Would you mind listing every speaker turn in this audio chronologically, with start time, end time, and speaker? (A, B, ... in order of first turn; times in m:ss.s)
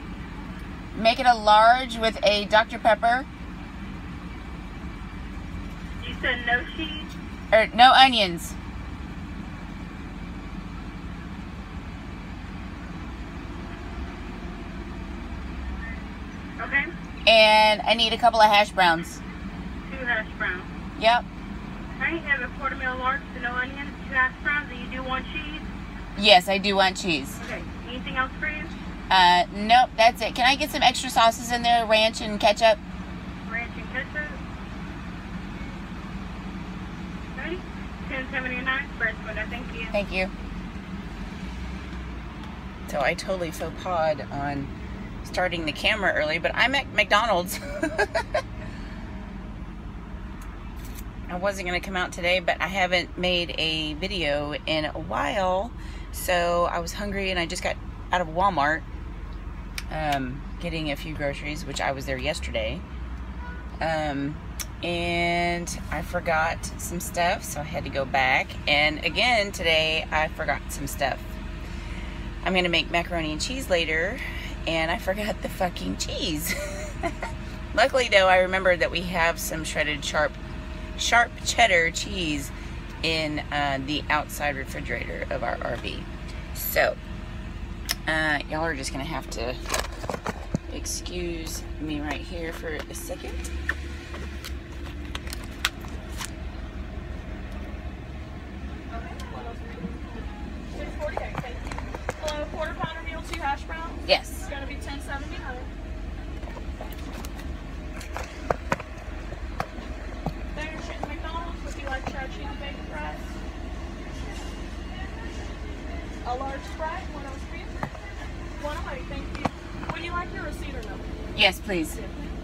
0:00.9-0:03.3 A
0:06.0-0:07.1 B
0:07.5-0:08.6 A
0:16.6-0:16.9 B
0:17.2-0:19.2 A
0:19.9-0:20.7 B
0:21.0-0:21.2 A
0:22.0-0:25.7 B
0:26.2-0:27.4 A
0:27.4-0:28.7 B
0:29.1-0:32.8 A
0:33.4-0:34.4 B
0:37.3-0:39.9 B
0:39.9-0:40.3 A
0:42.9-0:44.7 A
0:45.2-0:48.4 A
0:51.3-0:58.8 A
0:59.9-1:02.8 A
1:03.8-1:11.3 A
1:12.4-1:17.1 A
1:17.7-1:20.4 A
1:21.0-1:22.5 A
1:23.0-1:27.0 A
1:28.1-1:29.6 A
1:30.7-1:33.4 A
1:38.9-1:40.1 C
1:40.7-1:45.7 C
1:44.0-1:44.5 A
1:50.5-1:53.4 C
1:56.2-1:57.9 C
1:58.6-2:01.1 C
2:01.3-2:02.0 A
2:02.0-2:02.3 C